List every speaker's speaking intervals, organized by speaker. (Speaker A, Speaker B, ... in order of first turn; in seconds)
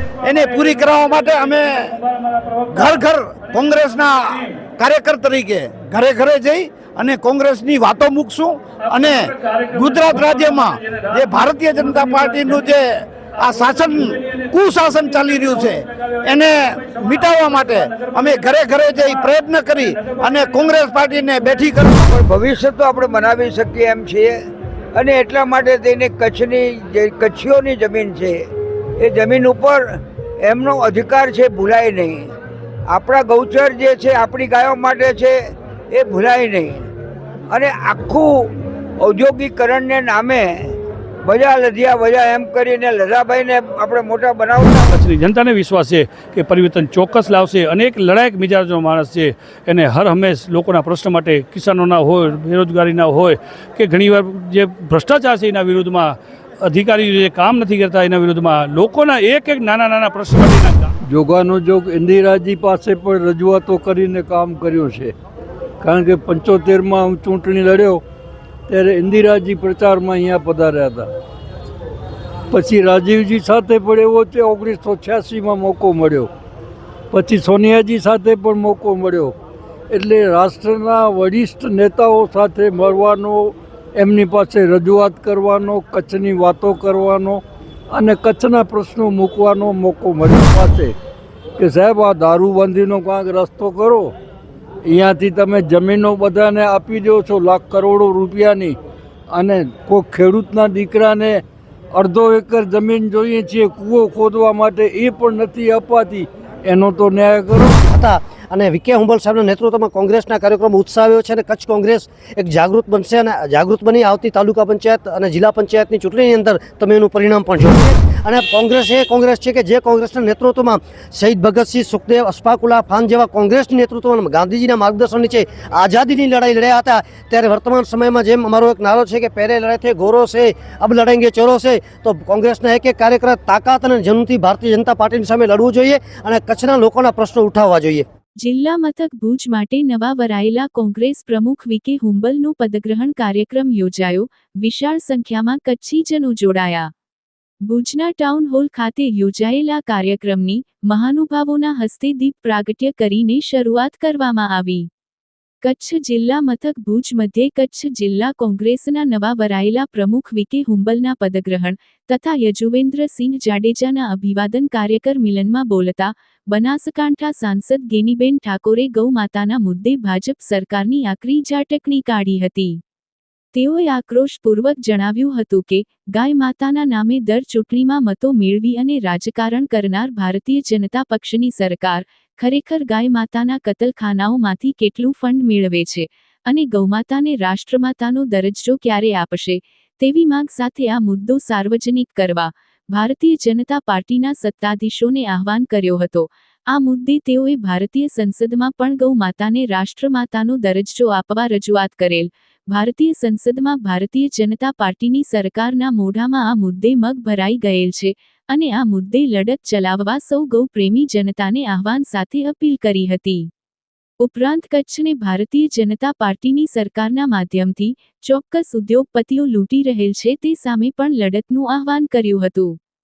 Speaker A: 0.2-2.0, 2.7-22.1
Speaker B: 2.2-3.0, 8.9-11.4, 44.9-60.9
Speaker C: 22.1-24.4, 24.9-28.4, 29.0-32.3, 32.9-35.4, 35.9-36.9, 37.5-40.7, 41.2-45.0
Speaker D: 61.1-65.1, 65.8-68.0, 68.7-71.1, 72.5-76.3, 77.1-79.3, 79.9-90.9, 91.6-94.1, 94.9-98.8, 99.3-101.4, 101.9-107.8
Speaker E: 107.8-138.1
Speaker F: 138.4-146.9, 147.6-154.9, 155.6-172.8, 173.5-213.5, 214.2-222.8